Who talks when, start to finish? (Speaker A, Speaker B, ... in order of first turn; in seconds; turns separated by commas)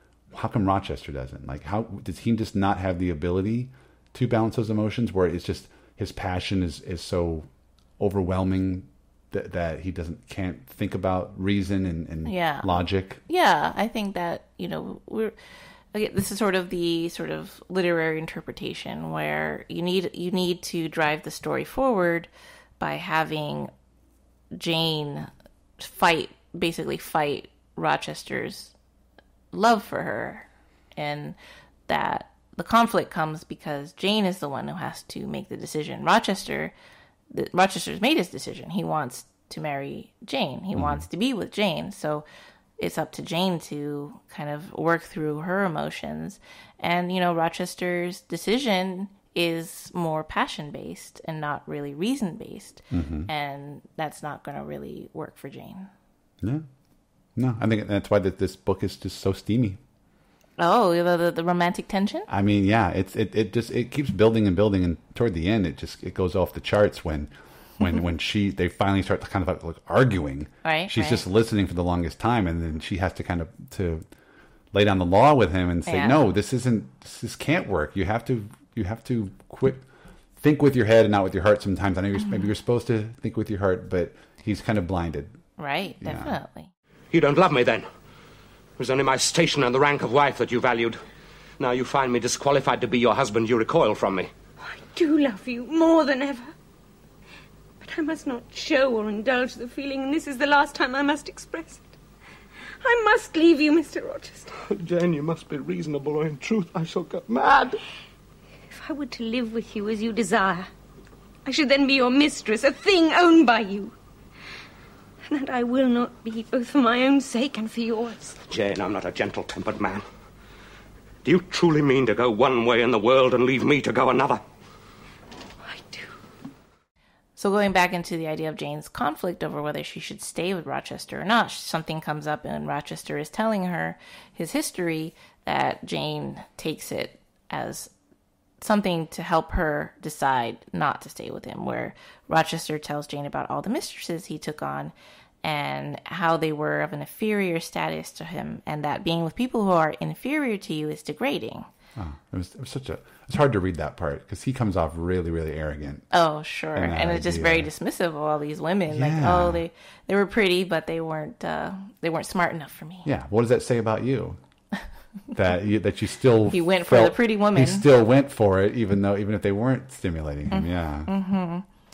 Speaker A: 0.3-7.5, Speaker A: 8.0-13.2, Speaker B: 12.3-12.7, Speaker B: 13.3-15.3, Speaker B: 15.9-23.7, Speaker B: 24.5-28.7, Speaker B: 29.5-31.4, Speaker B: 31.9-36.7, Speaker B: 37.3-42.2, Speaker A: 40.8-41.0, Speaker B: 42.8-55.9, Speaker A: 52.9-53.3, Speaker A: 56.4-56.7, Speaker A: 57.4-59.8, Speaker B: 60.6-62.3, Speaker A: 62.3-74.0, Speaker B: 70.6-71.2, Speaker A: 74.7-79.8, Speaker B: 75.9-76.2, Speaker A: 80.4-85.4, Speaker B: 85.6-86.7, Speaker A: 86.0-86.4, Speaker C: 87.1-87.9, Speaker C: 88.8-91.0, Speaker C: 91.6-94.3, Speaker D: 94.6-96.5, Speaker D: 97.8-101.8, Speaker D: 102.8-104.5, Speaker C: 104.7-107.8, Speaker D: 108.7-110.7, Speaker D: 111.5-113.9, Speaker D: 115.3-118.4, Speaker C: 118.5-120.0, Speaker C: 121.2-124.4, Speaker D: 125.7-126.1, Speaker B: 127.4-137.9, Speaker B: 138.6-151.7, Speaker A: 152.0-156.1, Speaker B: 156.1-163.1, Speaker A: 156.8-157.7, Speaker A: 158.9-159.6, Speaker A: 163.1-164.4, Speaker A: 165.3-171.1, Speaker B: 166.5-167.9, Speaker B: 170.5-171.7